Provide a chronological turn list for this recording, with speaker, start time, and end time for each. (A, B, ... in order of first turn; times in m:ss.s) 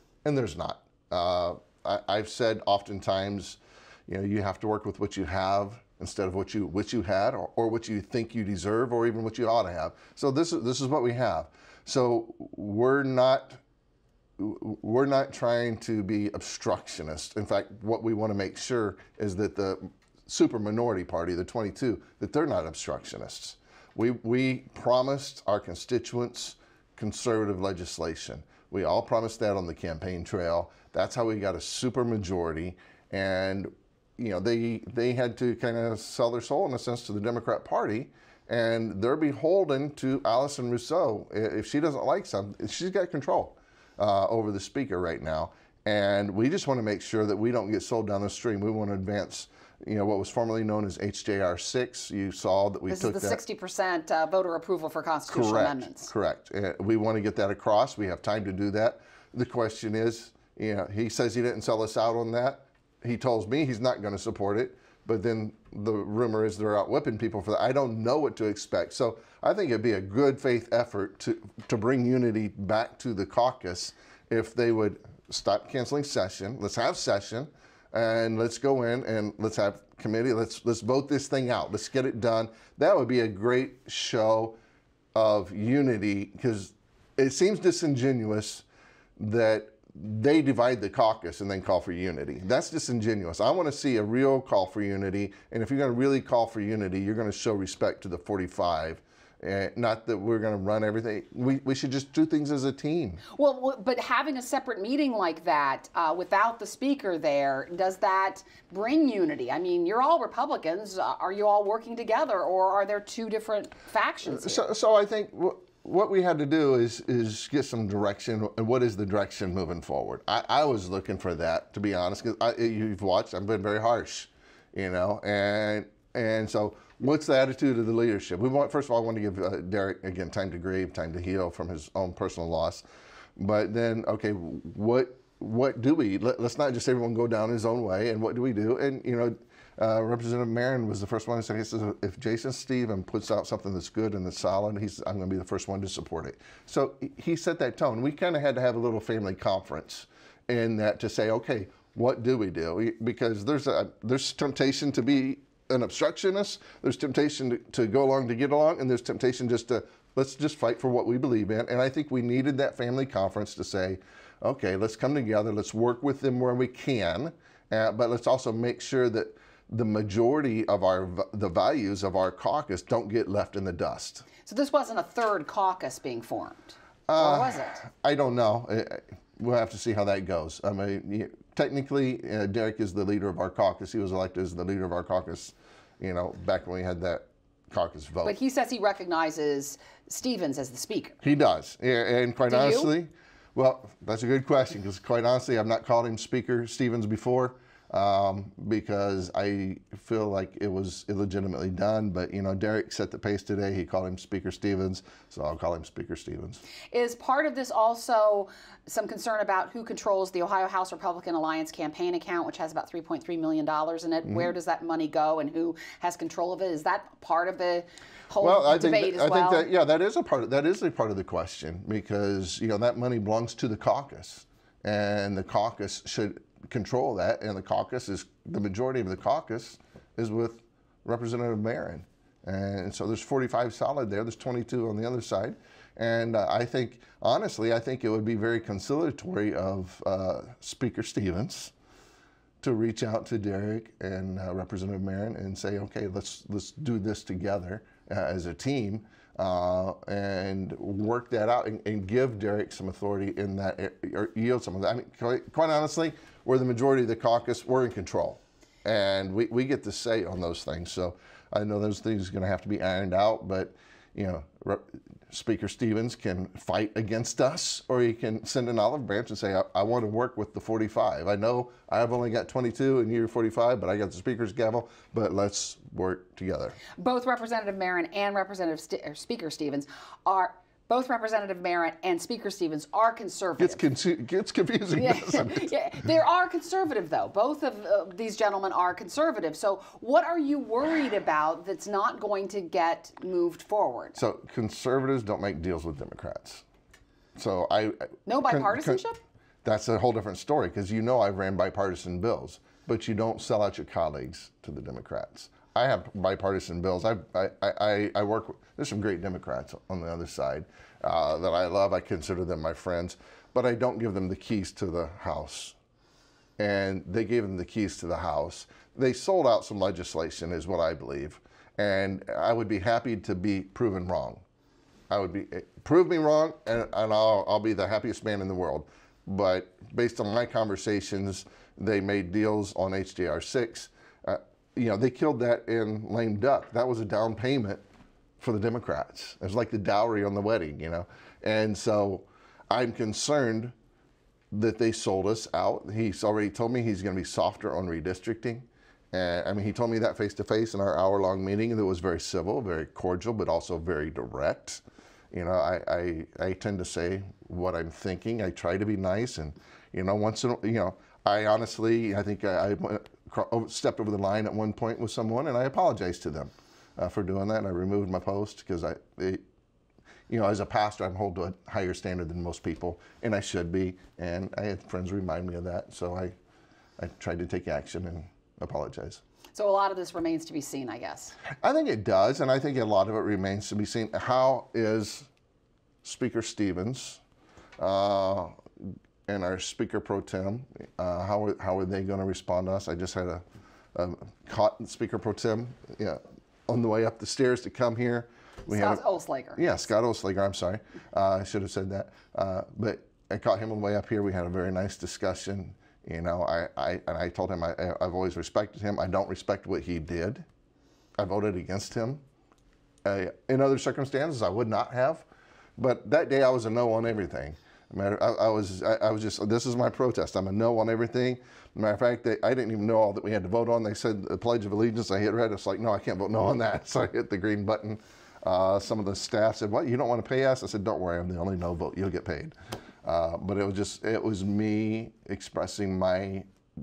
0:00.2-0:13.6 A
0:14.4-0:53.4 A
0:52.9-0:56.1 B
0:55.3-1:24.6 A
1:25.1-1:28.6 A
1:29.2-1:43.2 A
1:43.3-1:54.6 B
1:54.2-2:12.8 A
2:13.4-2:54.2 A
2:54.4-2:57.8 B
2:57.1-3:08.4 A
3:08.2-3:11.2 B
3:11.2-3:26.6 A
3:12.5-3:12.9 B
3:26.9-3:39.7 B
3:38.4-4:01.7 A
4:02.6-4:36.8 A
4:37.0-4:43.8 B
4:43.6-4:45.7 A
4:45.0-4:54.2 B
4:54.2-4:56.6 A
4:57.4-4:59.0 A
4:58.2-4:59.2 B
4:59.6-5:15.8 A
5:16.6-5:24.4 A
5:25.1-5:37.8 A
5:38.4-5:43.7 A
5:44.5-6:09.4 A
6:10.3-6:16.3 A
6:17.0-6:19.2 A
6:19.5-6:21.4 B
6:21.6-6:25.3 A
6:26.0-6:27.2 A
6:27.8-6:28.5 A
6:29.3-6:33.4 A
6:33.9-6:39.0 A
6:38.7-6:39.9 B
6:39.5-6:50.4 A
6:51.2-6:52.2 A
6:53.0-6:55.2 A
6:55.8-7:16.4 A